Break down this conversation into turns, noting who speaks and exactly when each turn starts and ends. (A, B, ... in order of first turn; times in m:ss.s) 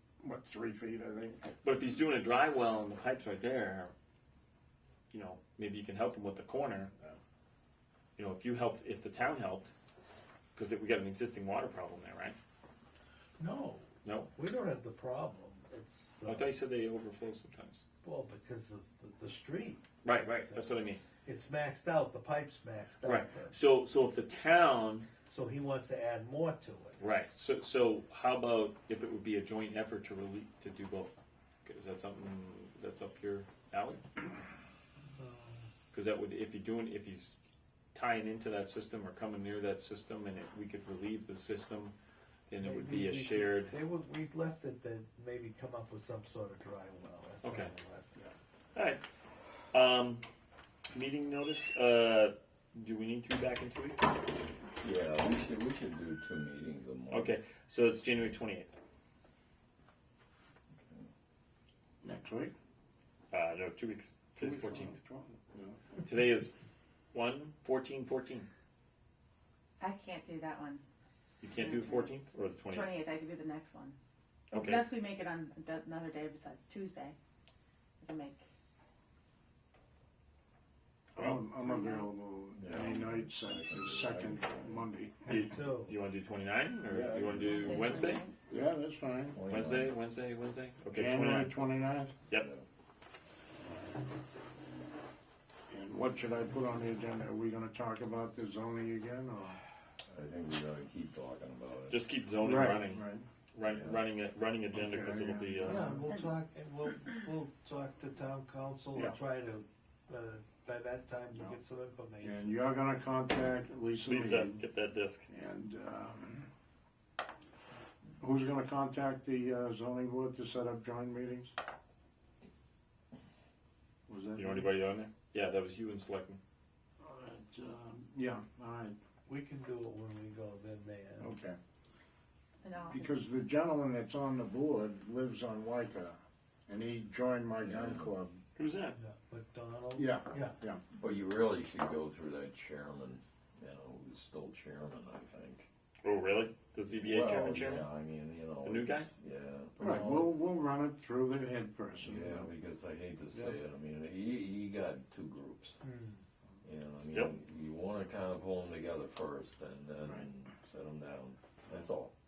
0:00.2-0:01.5 A
0:01.6-0:03.9 B
0:05.1-0:06.9 B
0:08.2-0:09.7 B
0:10.6-0:12.4 B
0:13.4-0:16.5 C
0:14.0-0:14.3 B
0:16.3-0:17.8 B
0:18.0-0:20.6 C
0:20.0-0:21.0 B
0:21.2-0:23.6 C
0:23.0-0:25.1 B
0:25.3-0:27.3 C
0:27.0-0:31.1 B
0:31.6-0:34.0 B
0:35.2-0:35.7 C
0:35.9-0:37.4 B
0:37.9-0:41.9 B
0:42.5-0:43.7 B
0:42.6-0:48.3 C
0:47.4-0:47.7 B
0:48.7-0:49.0 B
0:49.7-0:50.2 B
0:50.9-0:54.1 B
0:54.8-0:57.4 D
0:57.1-0:58.7 B
1:00.7-1:01.1 D
1:02.0-1:02.5 A
1:03.3-1:04.9 B
1:04.4-1:05.8 A
1:06.0-1:06.6 B
1:07.1-1:08.5 B
1:09.8-1:10.8 E
1:11.4-1:13.0 B
1:11.5-1:12.1 E
1:12.7-1:14.0 E
1:14.5-1:14.9 B
1:14.5-1:17.2 E
1:18.0-1:18.4 E
1:21.2-1:25.4 A
1:21.2-1:21.4 B
1:21.7-1:22.0 E
1:22.6-1:24.9 D
1:25.3-1:28.2 B
1:25.4-1:26.0 C
1:26.9-1:27.8 D
1:27.3-1:28.4 E
1:28.5-1:29.4 A
1:29.3-1:29.9 D
1:29.5-1:31.6 B
1:30.9-1:32.2 A
1:32.3-1:32.7 D
1:35.7-1:39.6 A
1:40.1-1:42.0 D
1:41.9-1:45.9 B
1:42.4-1:43.2 A
1:43.6-1:44.0 D
1:44.7-1:46.2 A
1:45.6-1:52.6 C
1:52.2-1:54.6 A
1:54.1-1:55.2 B
1:55.3-1:56.5 A
1:58.2-2:01.5 A
2:04.1-2:04.7 A
2:04.4-2:06.4 B
2:07.0-2:09.0 A
2:09.3-2:11.3 C
2:11.2-2:11.6 A
2:12.6-2:13.2 E
2:12.9-2:18.4 A
2:17.6-2:18.1 D
2:18.6-2:19.0 B
2:19.0-2:20.6 C
2:20.0-2:20.8 A
2:20.9-2:25.7 D
2:26.0-2:27.9 B
2:27.0-2:30.3 D
2:28.6-2:29.1 B
2:29.8-2:32.5 A
2:32.0-2:35.8 D
2:35.8-2:36.2 C
2:36.6-2:42.1 D
2:37.0-2:37.3 B